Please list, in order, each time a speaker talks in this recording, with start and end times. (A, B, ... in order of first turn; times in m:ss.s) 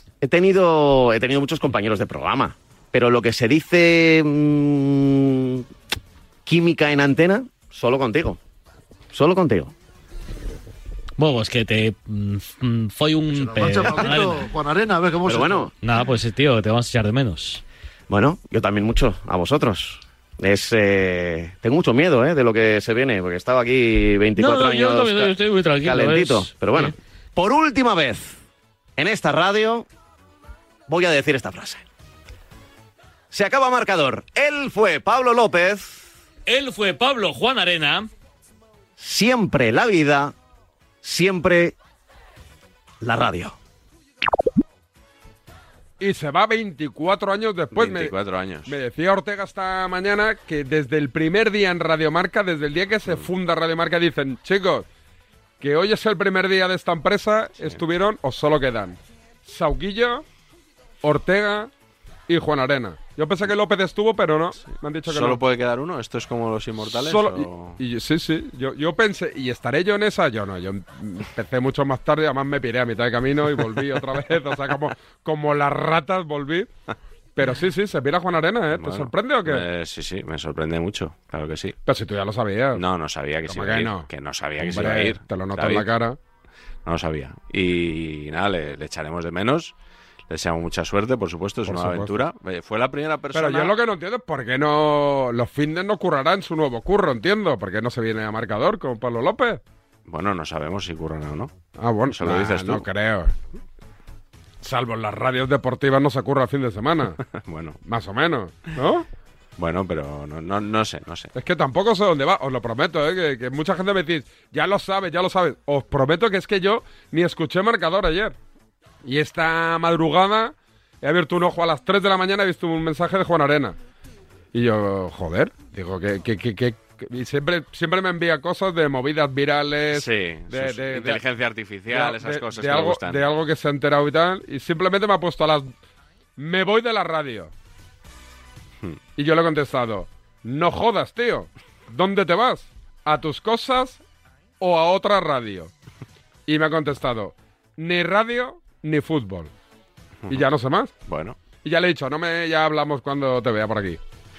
0:00.2-0:05.6 A
0:06.4-0:08.4 A
0:09.1-0:09.7 A
0:11.2-0:14.5 B
0:13.3-0:15.7 C
0:15.2-0:15.7 A
0:15.8-0:17.6 B
0:18.1-0:28.4 A
0:24.4-0:26.9 B
0:29.0-0:29.9 A
0:30.9-0:31.8 A
0:33.3-0:36.1 A
0:36.5-0:38.0 B
0:39.0-0:40.3 A
0:41.0-0:41.8 A
0:43.0-0:43.6 A
0:46.0-0:48.1 D
0:47.7-0:48.8 E
0:48.6-0:54.9 D
0:55.6-1:00.2 D
1:01.0-1:01.7 D
1:02.3-1:05.4 D
1:05.1-1:07.8 E
1:06.9-1:16.7 D
1:17.4-1:19.6 D
1:18.8-1:21.8 E
1:21.9-1:22.8 D
1:22.8-1:25.9 E
1:23.5-1:24.1 D
1:24.6-1:26.2 D
1:26.9-1:29.7 E
1:30.3-1:33.7 E
1:31.6-1:32.2 D
1:33.3-1:39.6 D
1:40.1-1:41.5 E
1:41.8-1:43.3 D
1:42.1-1:42.9 E
1:44.6-1:47.2 D
1:47.2-1:47.8 E
1:47.8-1:49.1 D
1:49.6-1:51.3 E
1:51.4-1:58.4 D
1:59.0-2:03.8 D
2:04.5-2:11.2 D
2:09.9-2:13.3 E
2:11.9-2:15.7 D
2:16.4-2:17.5 D
2:19.2-2:24.0 D
2:24.6-2:25.7 D
2:26.5-2:29.5 D
2:30.3-2:30.9 D
2:31.1-2:31.4 E
2:31.6-2:34.0 D